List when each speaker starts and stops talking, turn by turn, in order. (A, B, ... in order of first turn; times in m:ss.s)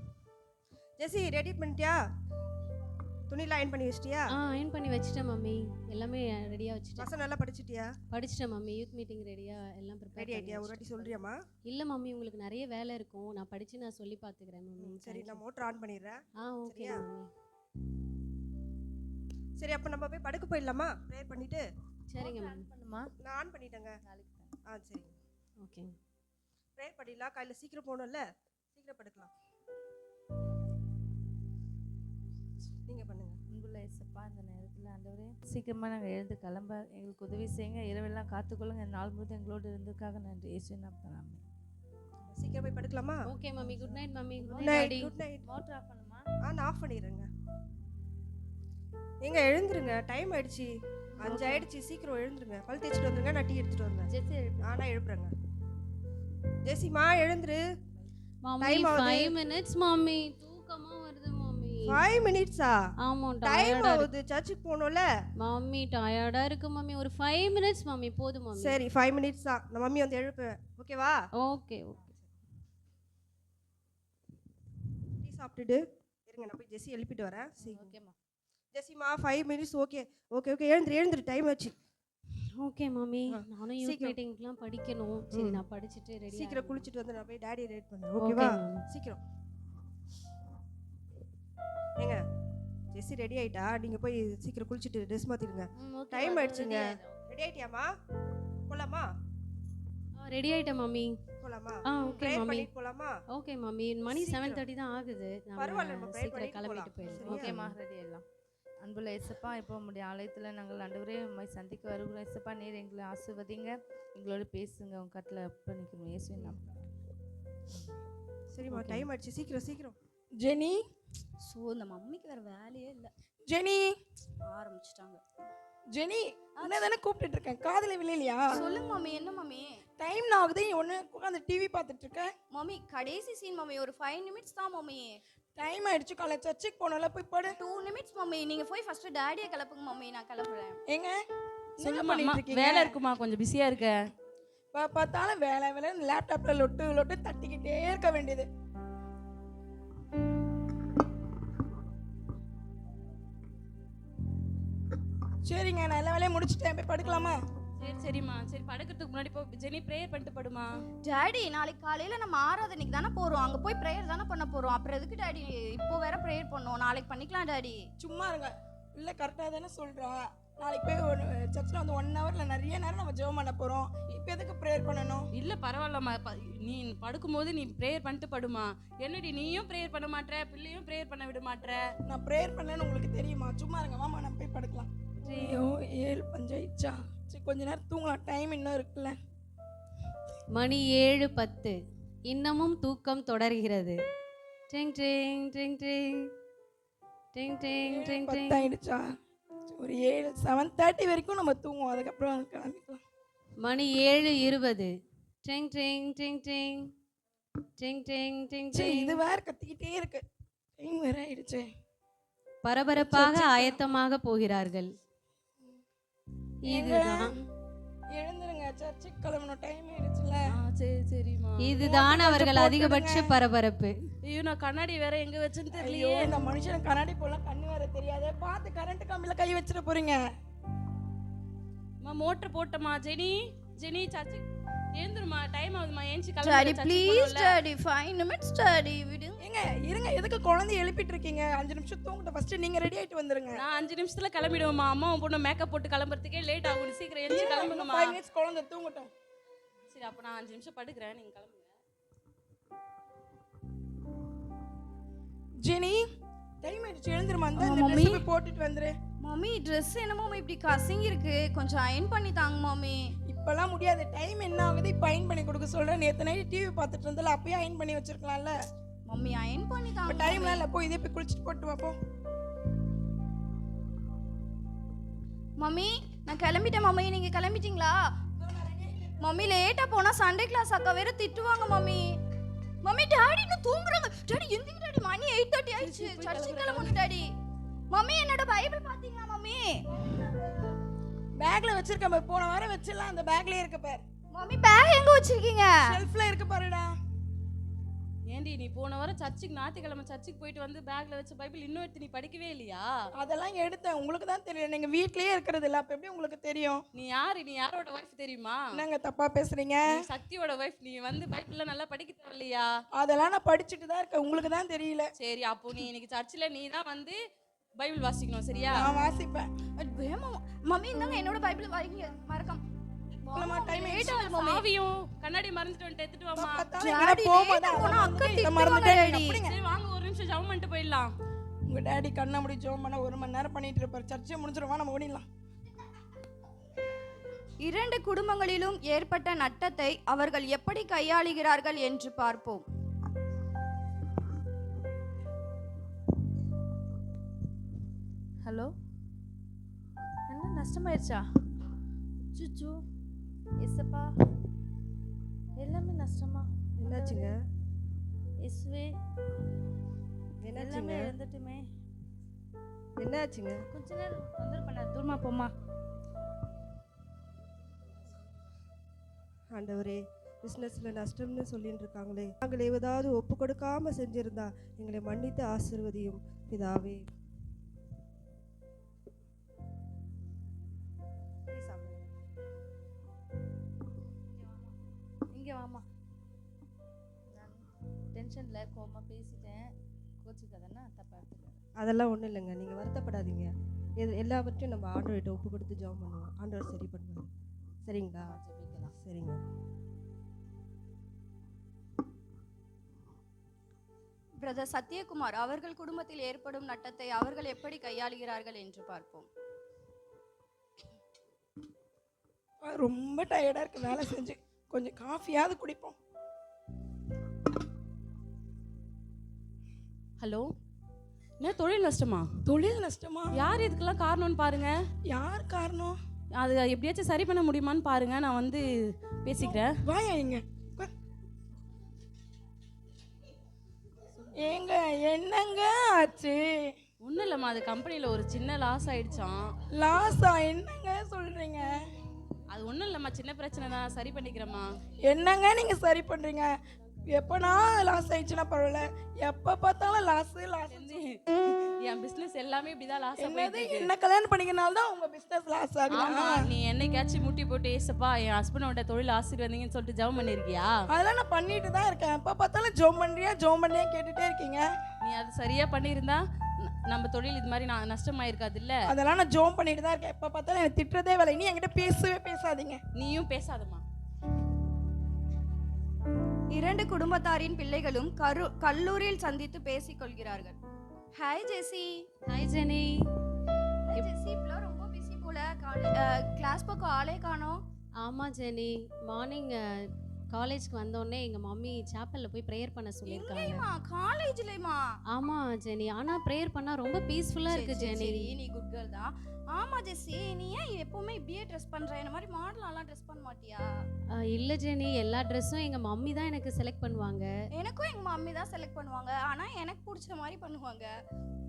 0:01.0-0:02.0 A
0:03.3-0:04.3 A
0:04.3-0:07.1 B
0:07.0-0:08.0 A
0:08.1-0:11.2 B
0:10.2-0:11.4 A
0:11.7-0:15.4 B
0:14.8-0:17.0 A
0:16.4-0:17.3 B
0:19.6-0:21.6 A
0:22.1-0:22.7 B
0:22.2-0:23.1 C
0:23.2-0:23.9 A
0:24.0-0:24.5 C
0:24.7-0:25.1 A
0:25.6-0:25.9 B
0:26.8-0:28.2 A
0:28.7-0:29.3 A
0:32.9-0:33.4 A
0:33.5-0:41.4 C
0:42.3-0:44.0 A
0:43.3-0:45.1 B
0:44.4-0:46.2 C
0:44.6-0:45.4 A
0:46.4-0:47.3 A
0:49.2-0:54.1 A
0:51.2-0:51.6 B
0:54.1-0:54.8 C
0:54.6-0:55.3 A
0:56.6-0:57.6 A
0:58.4-1:02.0 B
0:58.6-0:59.4 A
1:01.9-1:02.8 A
1:03.0-1:04.1 B
1:03.4-1:05.0 A
1:05.4-1:08.8 B
1:08.6-1:11.2 A
1:11.4-1:12.1 B
1:15.2-1:17.9 A
1:17.6-1:18.1 C
1:18.7-1:21.7 A
1:22.6-1:26.9 B
1:23.3-1:24.2 A
1:25.3-1:25.6 A
1:26.3-1:29.2 A
1:28.2-1:28.8 B
1:32.9-1:37.9 A
1:35.8-1:37.2 C
1:38.7-1:39.1 A
1:40.2-1:41.2 B
1:41.4-1:43.1 A
1:41.8-1:42.7 B
1:43.3-1:47.8 B
1:44.1-1:44.6 A
1:45.6-1:47.5 A
1:47.0-1:48.2 C
1:48.8-1:56.9 C
1:58.5-2:00.0 A
1:58.7-1:59.1 B
2:00.4-2:00.8 D
2:01.4-2:03.1 E
2:03.5-2:04.0 D
2:04.5-2:05.2 E
2:05.9-2:08.6 D
2:06.6-2:06.9 E
2:08.5-2:09.8 E
2:10.0-2:12.3 D
2:12.5-2:15.1 E
2:15.6-2:17.5 D
2:17.6-2:20.8 E
2:20.9-2:21.2 D
2:21.8-2:22.9 D
2:21.8-2:24.0 F
2:24.7-2:28.5 D
2:35.4-2:37.4 D
2:37.8-2:40.7 F
2:41.0-2:47.8 E
2:48.0-2:55.3 D
2:55.3-3:01.8 F
3:02.1-3:09.2 D
3:05.2-3:05.6 B
3:10.5-3:11.8 B
3:12.3-3:14.0 B
3:14.7-3:16.3 B
3:17.3-3:18.7 B
3:17.8-3:19.0 D
3:19.7-3:23.0 D
3:23.6-3:24.9 B
3:25.4-3:26.9 B
3:27.8-3:29.2 B
3:28.7-3:30.2 D
3:30.8-3:31.7 D
3:32.6-3:34.9 B
3:32.9-3:33.9 D
3:36.6-3:37.3 B
3:36.7-3:37.4 D
3:38.1-3:40.4 D
3:40.5-3:41.7 F
3:41.6-3:44.1 B
3:41.8-3:43.3 D
3:44.2-3:46.4 F
3:45.8-3:50.2 D
3:52.0-3:54.4 F
3:54.9-3:57.6 F
3:56.4-3:59.4 E
3:59.4-4:03.6 D
4:03.5-4:08.2 F
4:07.3-4:09.1 D
4:09.9-4:11.6 F
4:15.6-4:16.1 D
4:16.6-4:19.0 D
4:17.6-4:18.2 E
4:19.2-4:23.0 E
4:23.3-4:28.5 D
4:29.1-4:30.6 E
4:30.0-4:32.0 D
4:35.6-4:38.0 E
4:38.4-4:39.1 D
4:39.2-4:42.2 E
4:42.8-4:47.3 E
4:45.8-4:47.0 F
4:47.9-4:50.0 E
4:51.4-4:54.0 D
4:54.3-4:56.0 E
4:55.9-4:56.9 D
4:58.3-5:02.9 F
5:03.2-5:06.8 D
5:06.9-5:08.6 F
5:08.7-5:09.9 D
5:10.0-5:12.7 F
5:13.0-5:15.1 D
5:15.2-5:17.2 F
5:17.8-5:18.9 F
5:18.7-5:19.5 D
5:19.8-5:22.6 E
5:23.2-5:24.6 E
5:23.3-5:24.1 D
5:24.0-5:26.7 F
5:26.4-5:29.5 D
5:26.8-5:29.4 E
5:29.4-5:31.1 F
5:31.7-5:35.2 D
5:37.6-5:42.6 E
5:48.4-5:48.7 C
5:50.3-5:51.2 C
5:52.3-5:52.8 C
5:53.6-5:54.1 C
5:55.6-5:57.3 C
5:56.8-5:57.4 A
5:58.4-5:58.9 C
6:00.4-6:01.1 A
6:00.5-6:01.6 C
6:03.0-6:03.6 A
6:03.7-6:05.5 C
6:09.5-6:17.0 A
6:21.5-6:22.1 A
6:25.3-6:25.8 C
6:27.3-6:27.6 C
6:28.1-6:29.6 C
6:30.2-6:31.6 C
6:31.8-6:37.3 A
6:37.8-6:38.4 A
6:38.2-6:38.9 C
6:39.0-6:39.4 A
6:44.4-6:49.3 E
6:52.6-6:56.0 D
7:00.2-7:00.5 F
7:01.4-7:02.3 F
7:02.5-7:03.4 D
7:03.3-7:04.8 F
7:05.1-7:06.0 D
7:06.3-7:08.6 F
7:09.2-7:09.8 F
7:09.4-7:10.9 D
7:14.2-7:14.5 F
7:14.4-7:16.7 D
7:17.0-7:19.5 F
7:19.7-7:21.7 D
7:22.5-7:24.7 F
7:25.0-7:26.5 D
7:27.0-7:30.8 D
7:30.7-7:33.9 F
7:33.2-7:36.4 D
7:35.9-7:40.7 F
7:40.9-7:44.6 D
7:45.0-7:48.8 F
7:48.9-7:52.8 D
7:53.0-7:53.8 F
7:56.5-8:00.6 E
8:01.2-8:02.0 E
8:02.3-8:03.0 B
8:03.9-8:07.6 E
8:08.0-8:13.6 B
8:13.0-8:14.8 E
8:15.1-8:18.3 B
8:17.5-8:23.6 E
8:24.3-8:27.3 B
8:27.6-8:30.9 E